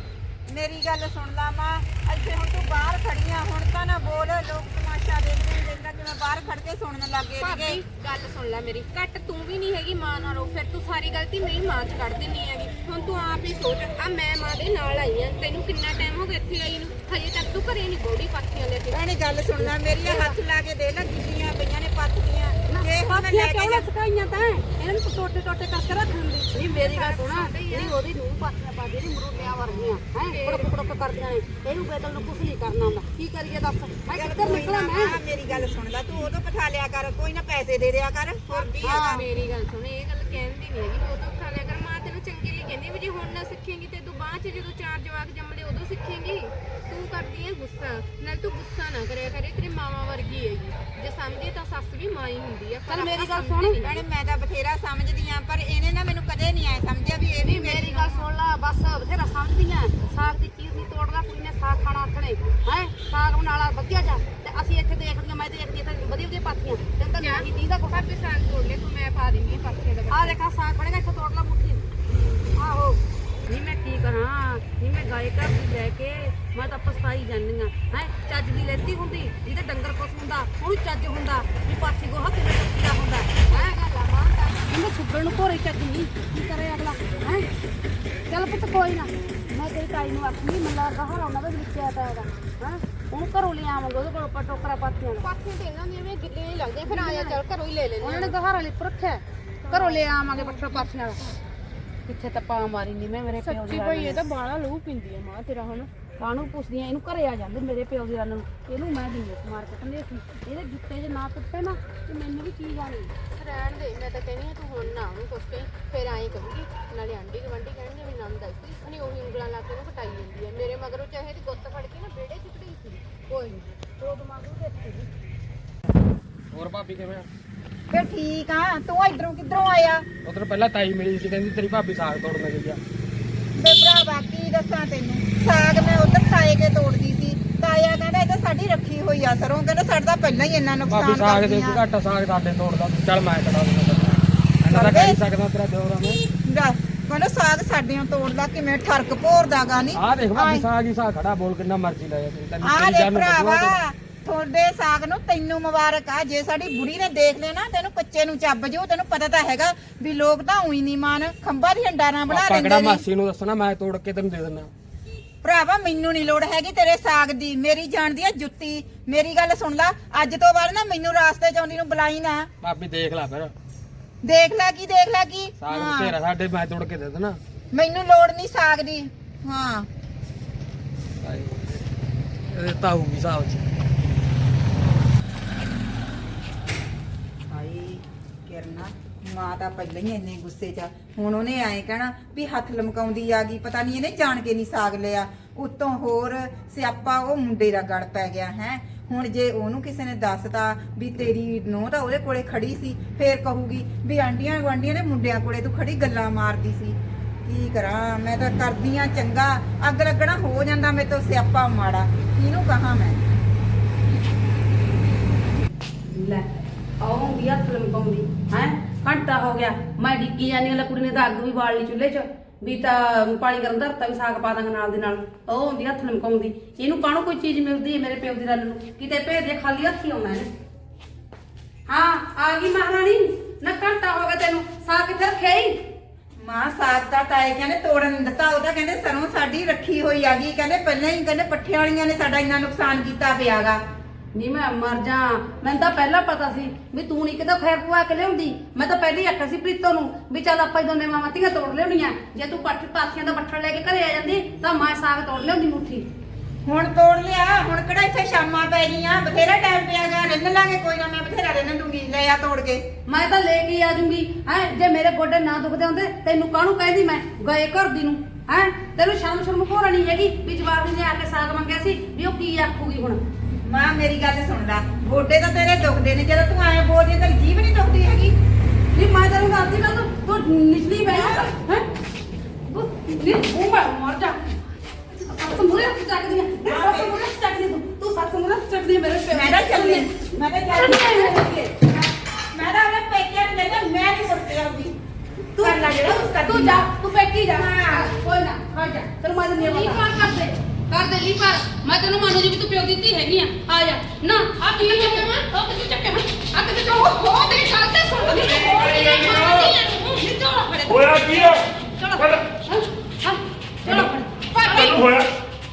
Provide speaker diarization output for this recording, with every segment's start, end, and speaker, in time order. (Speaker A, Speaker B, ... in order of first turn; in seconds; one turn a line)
Speaker A: 0.5-7.8
Speaker B: 7.4-19.0
Speaker A: 18.9-23.9
Speaker B: 19.6-20.4
Speaker C: 22.7-35.2
Speaker B: 26.6-28.0
Speaker B: 30.2-30.7
Speaker A: 34.1-39.1
Speaker B: 38.5-54.0
Speaker C: 38.8-39.2
Speaker C: 52.9-53.8
Speaker A: 53.8-58.3
Speaker B: 57.5-57.9
Speaker C: 57.5-68.0
Speaker B: 67.2-70.4
Speaker C: 70.1-71.9
Speaker C: 72.5-83.7
Speaker B: 83.5-84.7
Speaker C: 84.7-87.5
Speaker C: 88.3-95.3
Speaker B: 95.2-98.3
Speaker C: 96.8-97.4
Speaker C: 98.0-101.2
Speaker B: 99.7-100.9
Speaker C: 102.1-104.2
Speaker B: 103.4-105.9
Speaker C: 106.2-113.1
Speaker B: 113.3-123.1
Speaker C: 123.3-125.1
Speaker D: 126.5-127.3
Speaker A: 127.9-130.1
Speaker D: 130.2-132.8
Speaker A: 133.6-141.8
Speaker D: 140.9-146.2
Speaker A: 144.7-145.2
Speaker A: 146.0-150.7
Speaker D: 149.9-153.8
Speaker A: 152.6-163.0
Speaker D: 162.3-164.7
Speaker A: 165.4-172.5
Speaker D: 172.6-173.5
Speaker A: 174.2-176.2
Speaker D: 175.6-177.4
Speaker A: 177.7-179.9
Speaker D: 181.2-181.8
Speaker D: 182.5-183.7
Speaker A: 187.5-213.2
Speaker C: 216.1-216.4
Speaker C: 217.0-230.5
Speaker C: 231.9-235.8
Speaker A: 236.4-243.8
Speaker C: 244.3-256.1
Speaker A: 256.7-262.8
Speaker C: 263.1-273.2
Speaker A: 273.6-278.3
Speaker C: 278.9-281.9
Speaker A: 281.1-281.5
Speaker C: 282.7-284.4
Speaker C: 285.2-290.1
Speaker A: 286.6-287.2
Speaker A: 289.3-295.0
Speaker C: 290.7-291.7
Speaker C: 295.5-306.3
Speaker A: 295.6-296.9
Speaker A: 297.5-298.1
Speaker B: 299.6-300.1
Speaker B: 304.7-305.5
Speaker B: 306.5-310.2
Speaker C: 308.2-314.3
Speaker E: 308.4-309.7
Speaker E: 310.9-312.5
Speaker B: 314.5-315.0
Speaker E: 314.6-315.3